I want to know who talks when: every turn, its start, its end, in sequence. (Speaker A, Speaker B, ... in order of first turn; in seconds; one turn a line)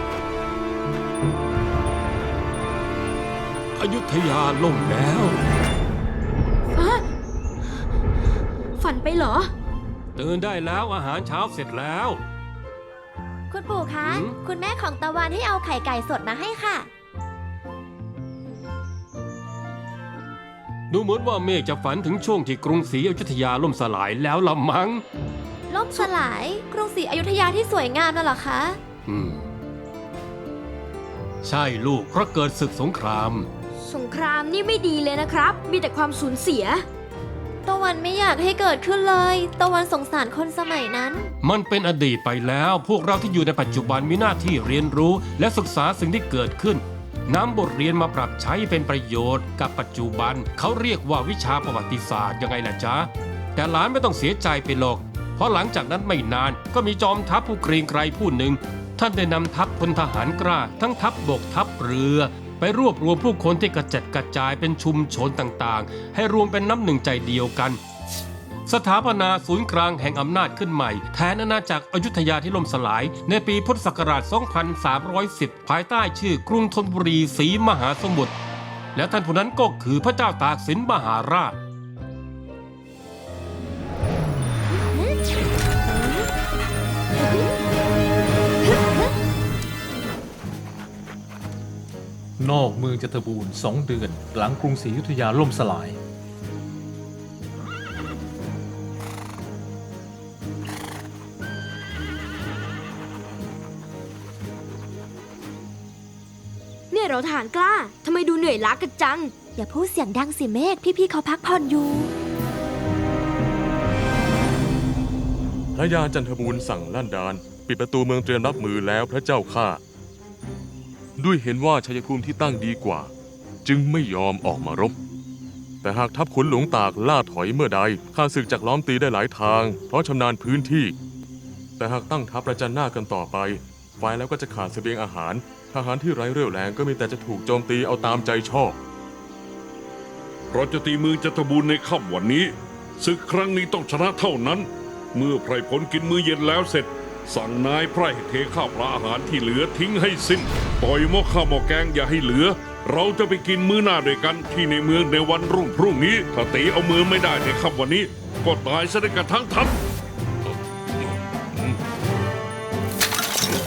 Speaker A: 3.8-5.4
Speaker B: 6.8-7.0
Speaker B: 8.8-9.5
Speaker A: 10.2-12.2
Speaker C: 13.5-16.9
Speaker A: 14.1-14.3
Speaker A: 20.9-25.0
Speaker C: 25.7-28.8
Speaker A: 29.1-29.4
Speaker A: 31.4-33.5
Speaker B: 33.8-36.9
Speaker C: 37.7-41.3
Speaker A: 41.4-67.8
Speaker A: 68.7-78.3
Speaker A: 79.0-81.6
Speaker C: 86.0-86.2
Speaker D: 92.4-96.0
Speaker B: 106.9-109.3
Speaker C: 109.6-112.1
Speaker E: 115.8-119.8
Speaker E: 121.2-123.1
Speaker E: 123.7-125.0
Speaker E: 125.8-130.9
Speaker E: 131.8-138.8
Speaker F: 140.5-159.8